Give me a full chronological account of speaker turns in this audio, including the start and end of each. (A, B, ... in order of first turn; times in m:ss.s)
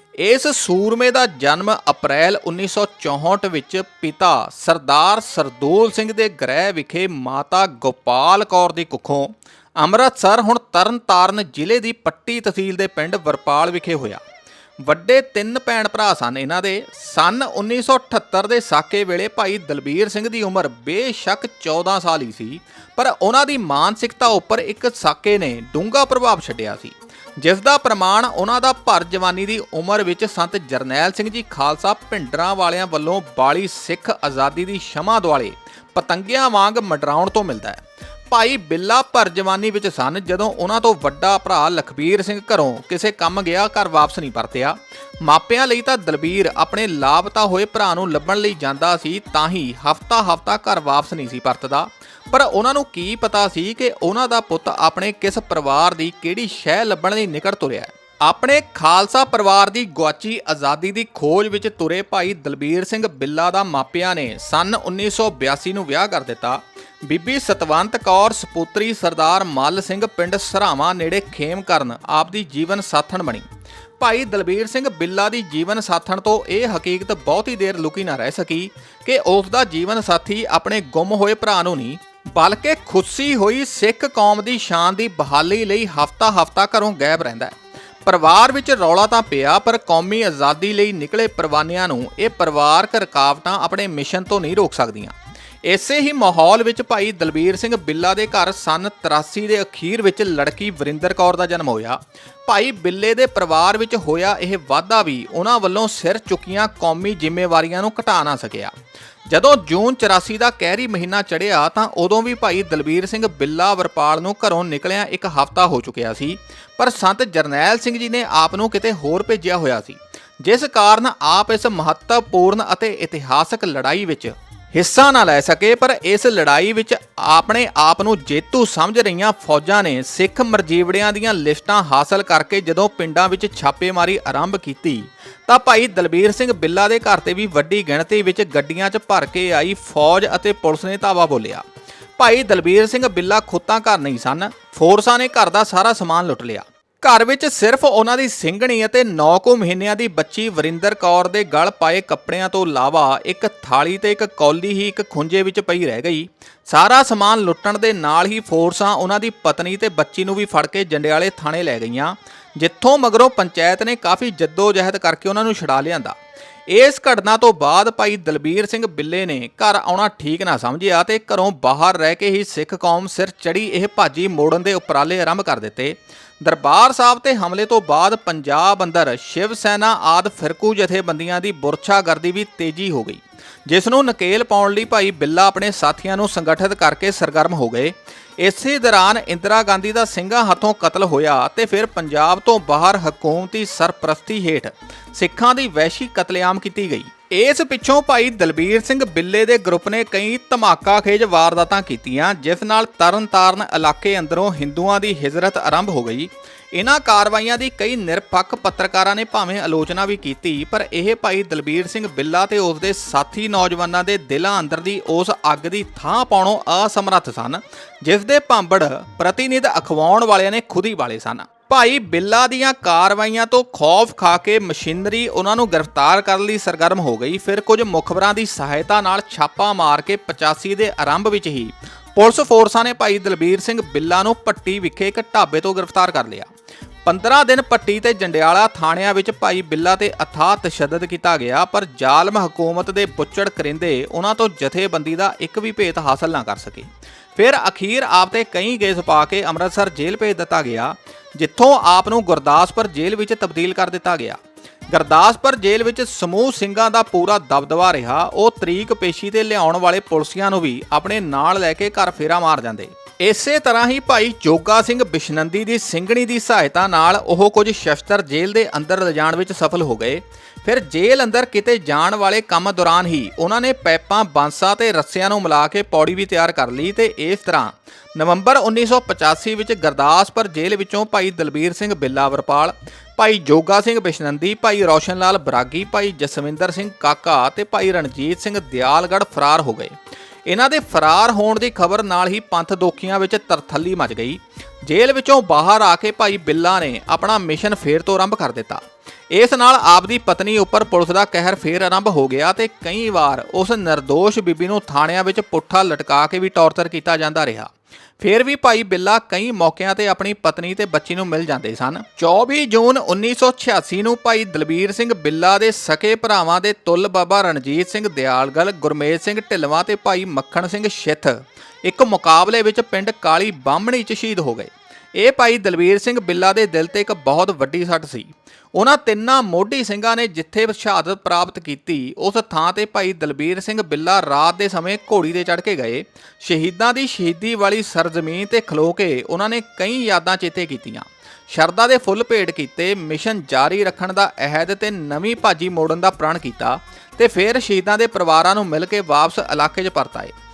0:00.2-0:14.2 A
0:14.8-1:13.5 A
1:14.0-1:48.8 A
1:49.3-2:21.6 A
2:22.2-2:46.2 A
2:46.7-3:56.5 A
3:57.0-4:50.0 A
4:50.5-5:50.3 A